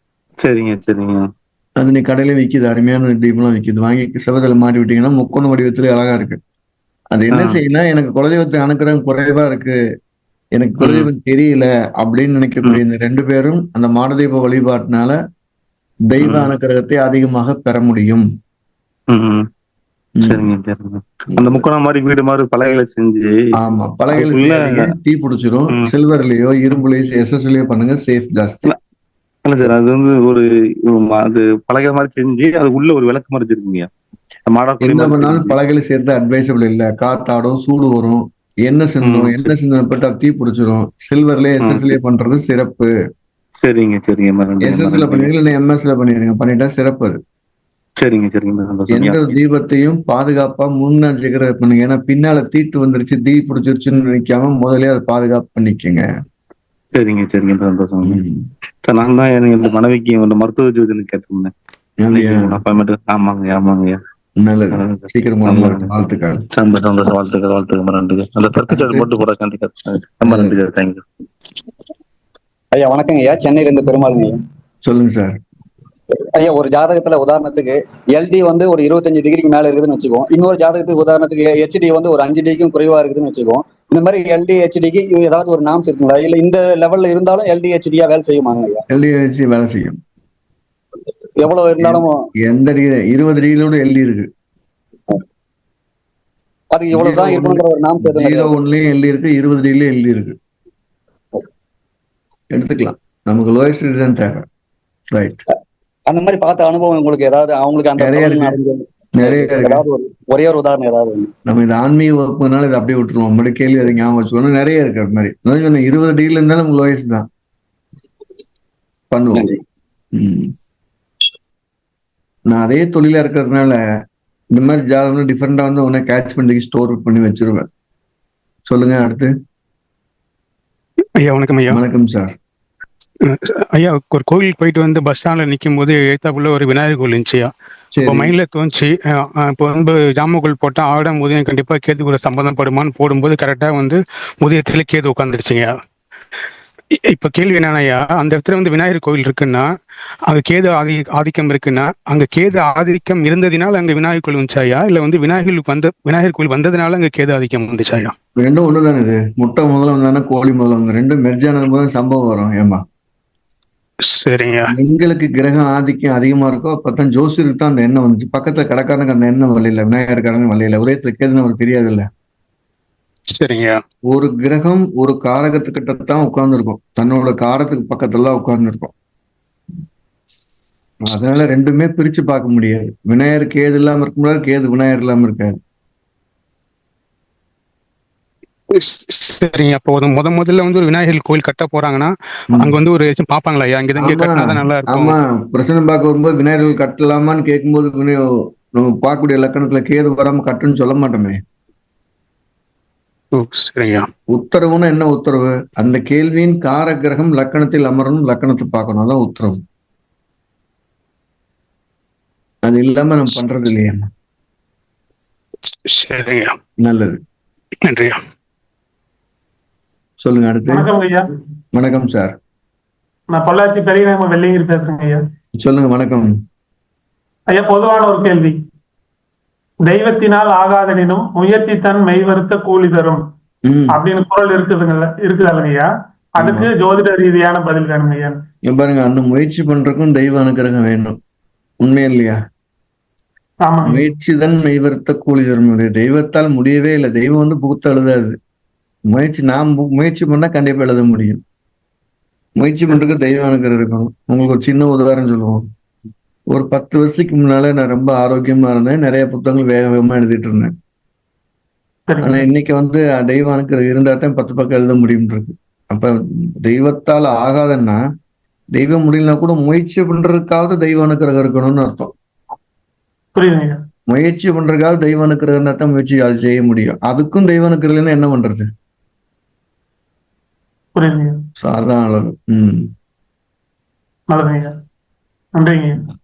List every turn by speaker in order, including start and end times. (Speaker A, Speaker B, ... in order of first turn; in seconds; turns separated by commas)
Speaker A: 0.4-1.3, Speaker B: 1.8-6.4, Speaker B: 7.1-9.8, Speaker A: 7.3-7.6, Speaker B: 10.5-15.2, Speaker A: 10.8-11.1, Speaker B: 16.1-18.2, Speaker A: 16.2-16.5, Speaker A: 19.1-19.5, Speaker B: 20.2-20.5, Speaker A: 20.2-23.5, Speaker B: 21.3-21.6, Speaker B: 23.5-28.7, Speaker A: 24.1-24.9, Speaker A: 29.4-33.9, Speaker A: 34.5-35.6, Speaker B: 34.8-42.9, Speaker A: 39.0-39.5, Speaker A: 41.6-42.0, Speaker A: 43.6-45.3, Speaker B: 44.6-47.2, Speaker A: 48.0-49.4, Speaker B: 48.9-56.0, Speaker A: 56.9-58.2, Speaker B: 58.0-58.5, Speaker A: 58.8-61.5, Speaker B: 62.0-62.6, Speaker A: 62.1-64.0, Speaker B: 64.4-66.4, Speaker A: 64.7-65.9, Speaker A: 66.5-71.0, Speaker B: 68.7-69.1, Speaker B: 70.2-70.6, Speaker C: 72.7-74.4, Speaker B: 74.8-75.4, Speaker C: 76.3-88.8, Speaker B: 88.9-90.0, Speaker C: 91.4-92.1, Speaker B: 91.8-94.3, Speaker C: 96.7-98.5, Speaker B: 96.9-100.3, Speaker B: 102.5-104.4, Speaker B: 105.1-105.4, Speaker C: 106.1-111.3, Speaker B: 108.0-108.5, Speaker B: 109.2-109.8, Speaker B: 111.5-117.3, Speaker B: 119.1-119.5, Speaker C: 119.3-119.6, Speaker B: 120.1-120.5, Speaker B: 122.5-123.8, Speaker B: 124.5-127.7, Speaker B: 128.7-129.3, Speaker D: 131.2-131.8, Speaker B: 131.7-132.3, Speaker D: 133.3-137.5, Speaker B: 137.9-138.3, Speaker D: 138.1-145.7, Speaker D: 147.1-149.7, Speaker D: 150.3-158.1, Speaker B: 158.4-162.8, Speaker D: 164.1-164.6, Speaker B: 164.7-172.1, Speaker D: 173.3-173.7, Speaker B: 174.1-178.9, Speaker B: 181.0-185.6, Speaker D: 188.7-192.1, Speaker D: 192.8-195.1, Speaker B: 193.9-198.2, Speaker B: 198.8-201.4, Speaker D: 203.3-204.1, Speaker B: 204.3-209.6, Speaker B: 212.6-214.1, Speaker D: 215.9-216.6, Speaker B: 216.8-217.2, Speaker D: 217.9-218.2, Speaker B: 220.2-220.9, Speaker E: 220.7-221.3, Speaker B: 221.7-222.3, Speaker E: 223.3-225.2, Speaker B: 225.6-226.3, Speaker E: 227.5-228.6, Speaker E: 229.8-233.2, Speaker B: 233.7-234.0, Speaker E: 233.9-235.9, Speaker E: 236.4-238.4, Speaker B: 236.4-236.7, Speaker B: 238.7-241.2, Speaker B: 241.8-242.4, Speaker E: 243.6-244.0, Speaker B: 243.8-248.3, Speaker B: 249.1-251.4, Speaker B: 252.6-255.6, Speaker B: 256.5-260.7, Speaker E: 262.1-262.4, Speaker B: 262.2-268.0, Speaker B: 268.7-272.1, Speaker E: 273.4-273.8, Speaker B: 274.1-278.7, Speaker E: 280.9-281.4, Speaker B: 281.6-282.9, Speaker E: 284.3-284.7, Speaker E: 285.6-286.0